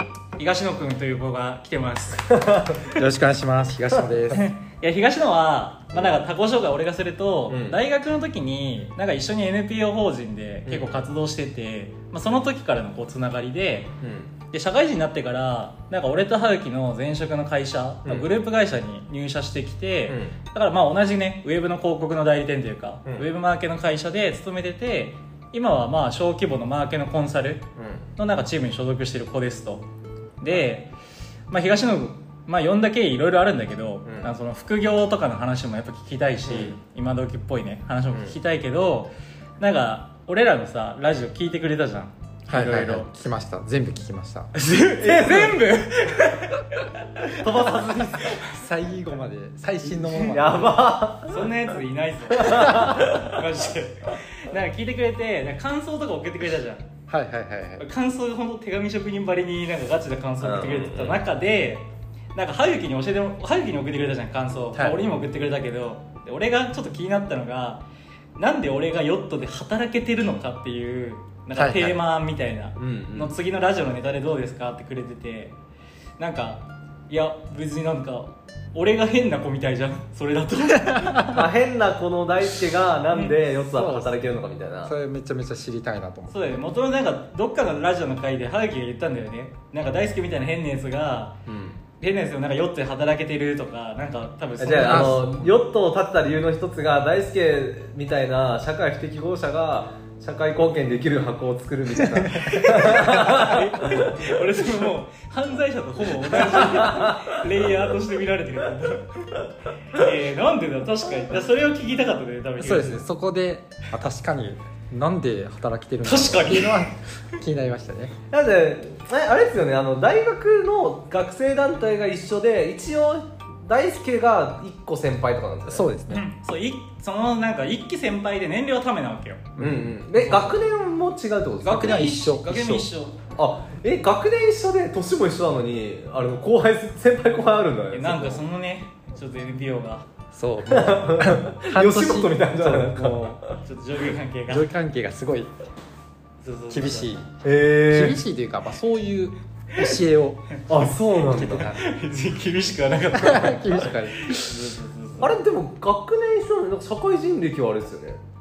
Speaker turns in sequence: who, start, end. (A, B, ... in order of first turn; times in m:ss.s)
0:00.4-0:02.3 A
0:02.3-0:02.8 B
0:02.9-0:04.4 C
0:04.3-0:13.9 A
0:05.9-0:06.2 B
0:07.5-0:07.8 B
0:10.6-0:11.1 B
0:14.0-0:14.3 B
0:14.5-0:27.6 A
0:20.1-0:20.4 B
0:27.8-0:28.1 B
0:28.2-0:29.8 A
0:30.4-0:30.9 A
0:31.5-0:43.1 A
0:34.0-0:34.3 B
0:36.4-0:36.8 B
0:42.5-0:44.5 C
0:44.6-0:48.5 A
0:44.7-0:45.7 B
0:47.4-0:48.4 B
0:48.1-0:50.8 C
0:50.0-0:51.5 B
0:51.2-0:56.9 A
0:52.3-0:53.3 B
0:57.1-0:57.9 C
0:57.8-1:07.8 A
1:00.4-1:01.2 B
1:04.7-1:05.0 C
1:08.4-1:15.6 A
1:11.5-1:12.0 C
1:12.8-1:13.4 B
1:16.2-1:21.4 A
1:20.8-1:21.2 C
1:21.2-1:24.9 B
1:23.1-1:23.4 A
1:23.7-1:26.4 C
1:26.3-1:31.4 A
1:31.4-1:31.8 B
1:32.0-1:35.5 A
1:34.6-1:44.2 B
1:34.7-1:35.2 C
1:42.0-1:42.3 C
1:42.2-1:53.0 A
1:46.9-1:47.3 B
1:52.6-1:58.2 C
1:56.0-1:56.9 A
1:58.3-2:05.8 B
2:05.7-2:06.2 C
2:06.1-2:09.5 A
2:09.6-2:10.4 C
2:09.6-2:11.9 B
2:11.6-2:13.2 A
2:11.6-2:12.9 C
2:13.4-2:18.4 B
2:17.9-2:20.0 A
2:20.3-2:23.4 C
2:20.7-2:23.6 B
2:23.6-2:24.7 A
2:24.5-2:25.5 C
2:26.4-2:27.1 A
2:26.7-2:27.3 C
2:27.4-2:28.2 B
2:27.9-2:30.5 C
2:30.7-2:31.7 B
2:31.2-2:31.8 C
2:31.4-2:35.4 A
2:33.1-2:34.6 C
2:35.2-2:38.2 B